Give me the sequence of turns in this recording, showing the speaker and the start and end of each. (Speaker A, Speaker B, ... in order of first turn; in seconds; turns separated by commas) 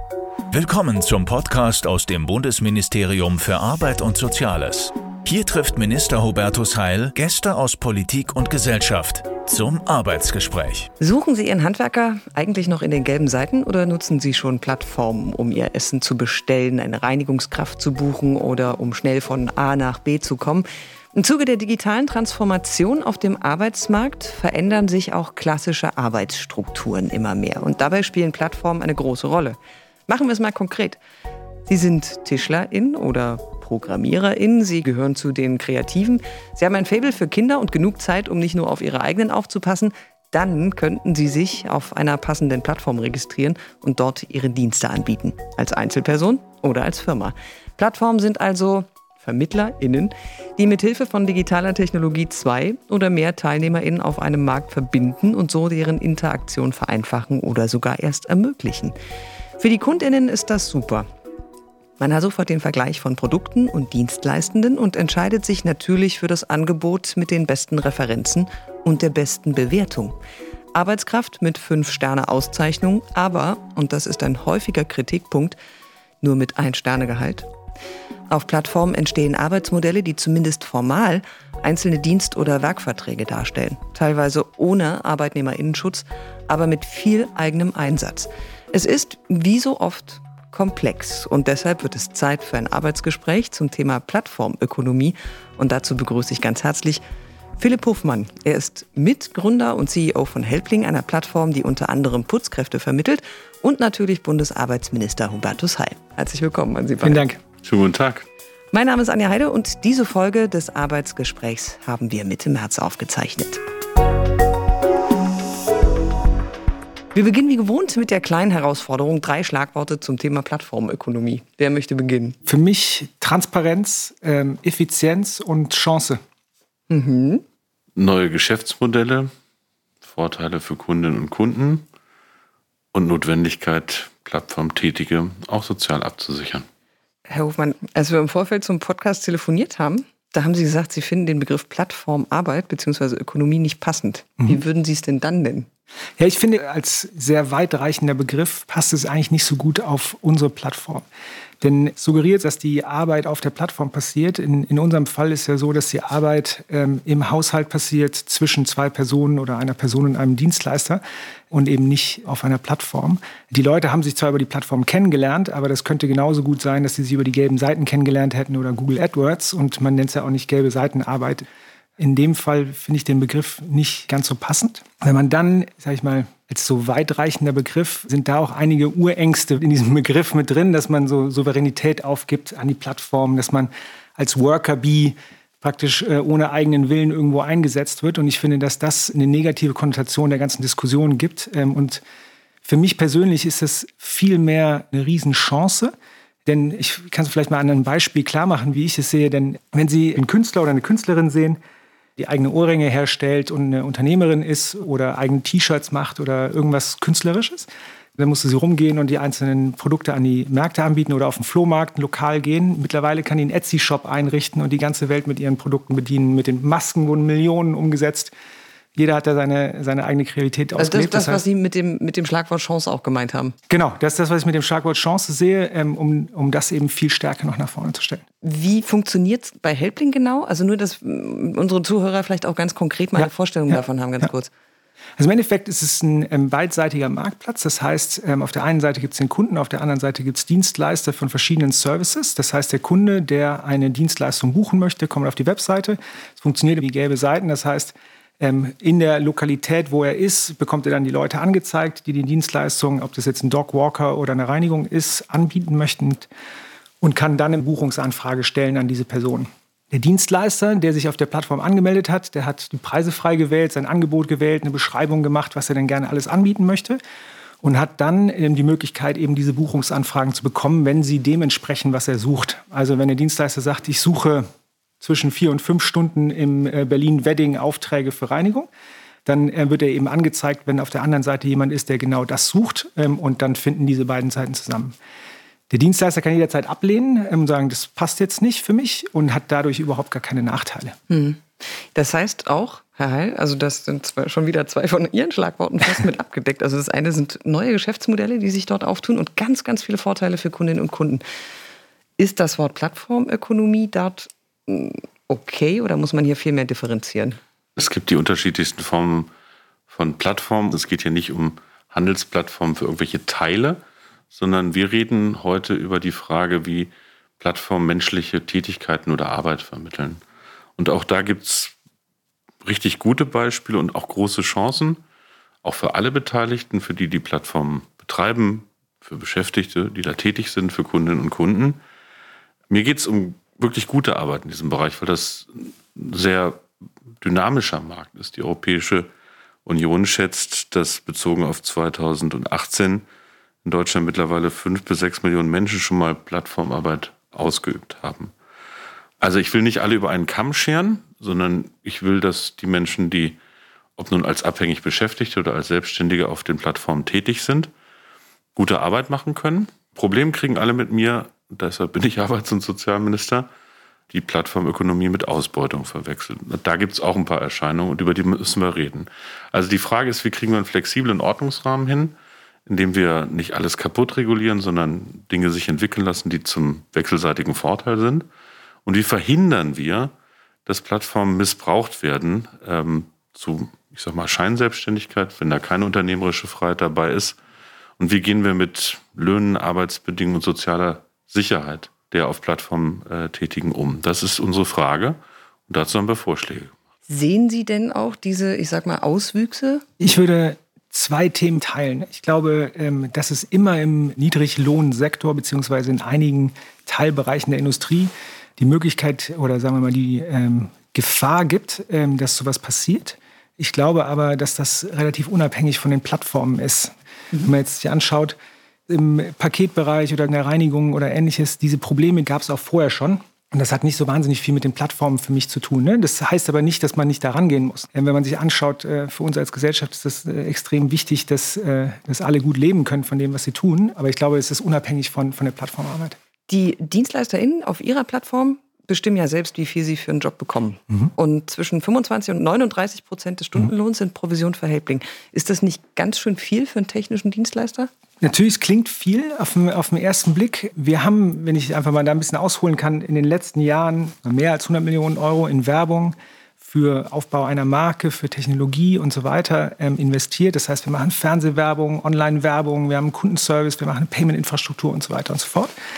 Speaker A: 0.5-10.9, Speaker B: 11.0-31.0, Speaker B: 31.7-59.0, Speaker B: 59.6-61.1, Speaker B: 62.0-70.2, Speaker B: 70.7-75.6, Speaker B: 76.2-77.5, Speaker B: 78.3-97.0, Speaker B: 97.6-107.2, Speaker C: 107.0-107.4, Speaker D: 107.6-108.3, Speaker B: 108.7-113.6, Speaker B: 117.1-122.4, Speaker C: 122.5-126.2, Speaker B: 126.9-127.4, Speaker D: 128.0-129.3, Speaker D: 130.0-131.8, Speaker D: 132.9-136.7, Speaker B: 137.3-145.7, Speaker C: 146.2-151.1, Speaker C: 151.6-171.5, Speaker C: 172.0-192.0, Speaker C: 192.7-195.9, Speaker C: 196.5-201.6, Speaker C: 202.2-218.3, Speaker C: 218.9-221.4, Speaker B: 220.8-223.6, Speaker C: 223.7-228.2, Speaker B: 228.4-234.5, Speaker C: 235.2-256.3, Speaker C: 257.0-267.0, Speaker C: 267.6-274.5, Speaker C: 275.0-278.7, Speaker C: 279.2-285.0, Speaker C: 285.7-291.0, Speaker B: 291.1-301.2, Speaker B: 302.2-307.4, Speaker D: 307.8-309.3, Speaker D: 309.9-320.2, Speaker D: 320.8-321.8, Speaker D: 322.6-325.0, Speaker D: 325.6-331.8, Speaker D: 332.7-336.6, Speaker D: 337.2-339.1, Speaker D: 339.7-343.1, Speaker D: 343.6-348.3, Speaker D: 349.2-353.4, Speaker D: 354.0-357.7, Speaker D: 358.6-363.5, Speaker D: 364.1-372.1, Speaker D: 372.7-378.3, Speaker D: 378.9-380.1, Speaker D: 380.7-387.4, Speaker D: 388.0-396.7, Speaker B: 397.1-399.8, Speaker C: 400.0-418.4, Speaker C: 418.9-436.2, Speaker B: 436.5-447.9, Speaker C: 448.2-465.7